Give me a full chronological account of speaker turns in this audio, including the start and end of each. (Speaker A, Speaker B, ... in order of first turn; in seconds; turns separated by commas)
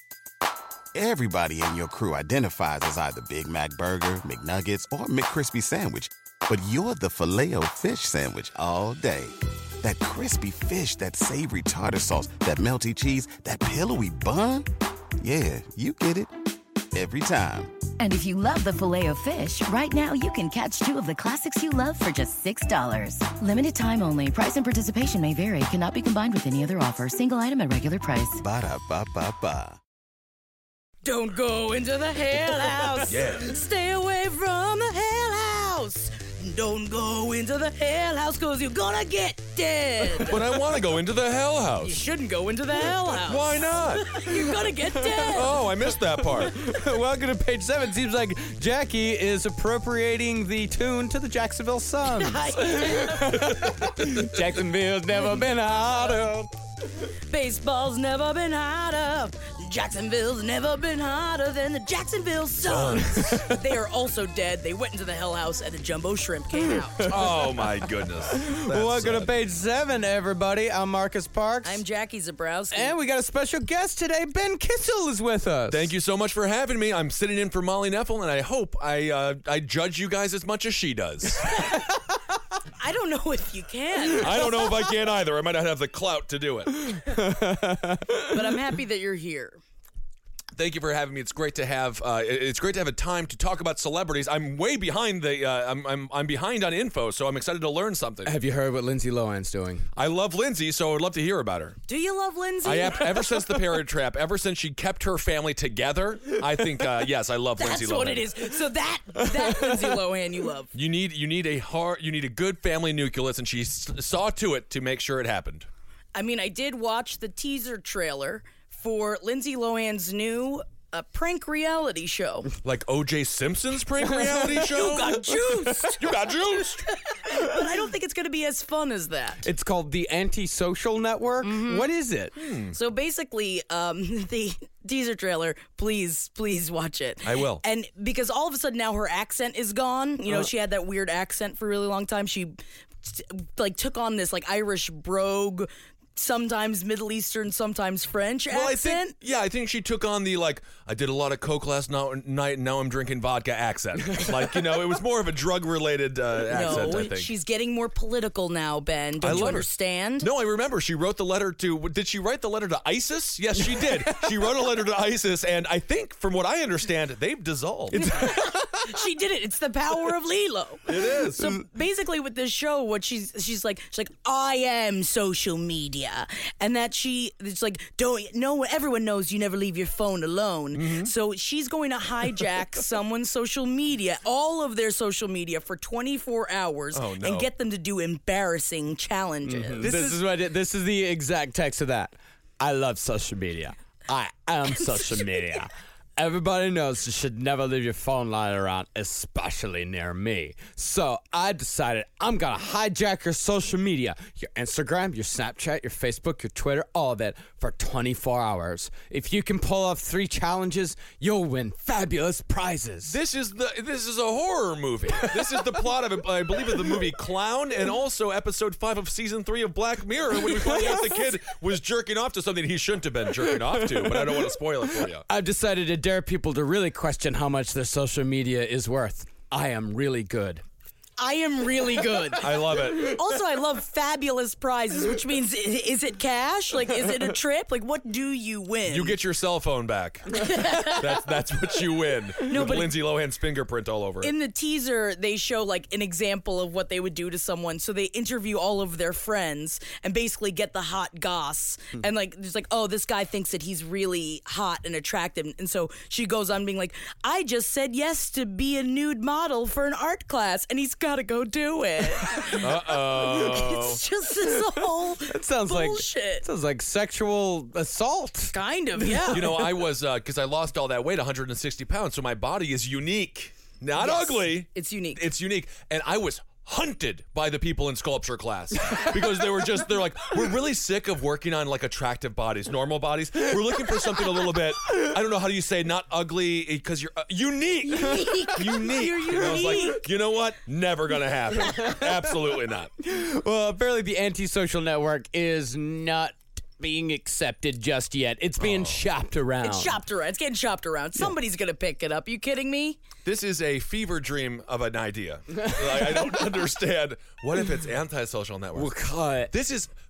Speaker A: 0.9-14.7, Speaker A: 15.2-16.3, Speaker A: 16.9-17.7, Speaker B: 18.0-28.4, Speaker A: 28.4-29.8, Speaker C: 31.0-40.6, Speaker D: 33.1-33.6, Speaker D: 40.2-42.0, Speaker C: 41.8-45.6, Speaker D: 43.2-44.3, Speaker E: 44.8-45.5, Speaker D: 45.3-46.6, Speaker E: 46.0-56.5, Speaker C: 52.0-53.5, Speaker D: 53.5-54.0, Speaker C: 57.0-67.3, Speaker D: 62.6-63.4, Speaker E: 63.0-63.6, Speaker E: 66.5-71.8, Speaker D: 67.1-69.3, Speaker C: 71.6-72.9, Speaker E: 72.7-75.9, Speaker D: 75.7-81.6, Speaker C: 82.8-84.8, Speaker D: 84.2-86.8, Speaker E: 86.7-88.6, Speaker C: 88.3-89.6, Speaker D: 90.5-98.3, Speaker E: 98.2-99.8, Speaker D: 99.9-101.8, Speaker C: 101.9-103.5, Speaker D: 102.6-108.3, Speaker C: 107.5-110.7, Speaker E: 109.2-110.0, Speaker D: 110.7-115.7, Speaker C: 116.1-122.5, Speaker D: 122.6-126.9, Speaker E: 124.0-126.0, Speaker C: 124.2-126.2, Speaker C: 126.8-129.5, Speaker E: 129.4-132.3, Speaker C: 131.4-131.9, Speaker D: 132.3-132.8, Speaker C: 132.7-149.1, Speaker D: 137.2-137.6, Speaker D: 148.5-157.3, Speaker E: 154.1-154.4, Speaker C: 156.5-160.3, Speaker D: 159.2-159.7, Speaker D: 160.2-168.0, Speaker E: 163.6-164.5, Speaker E: 167.9-168.9, Speaker C: 167.9-189.9, Speaker D: 170.8-171.5, Speaker D: 180.7-181.1, Speaker D: 186.9-187.5, Speaker E: 189.4-213.2, Speaker D: 189.8-190.2, Speaker C: 194.8-195.6, Speaker D: 213.1-225.2, Speaker E: 220.3-221.3, Speaker E: 223.4-224.5, Speaker E: 225.0-230.6, Speaker C: 231.2-239.2, Speaker D: 232.4-233.2, Speaker D: 238.9-244.3, Speaker C: 240.3-241.2, Speaker C: 242.4-242.9, Speaker C: 244.2-266.4, Speaker D: 262.5-264.0, Speaker E: 265.2-269.5, Speaker C: 268.5-269.7, Speaker D: 269.3-292.9, Speaker C: 273.9-275.3, Speaker C: 287.9-290.1, Speaker E: 291.7-292.1, Speaker E: 293.0-300.0, Speaker D: 298.6-299.0, Speaker C: 299.6-303.0, Speaker D: 303.2-308.9, Speaker E: 305.6-306.5, Speaker E: 308.7-309.5, Speaker D: 309.5-309.9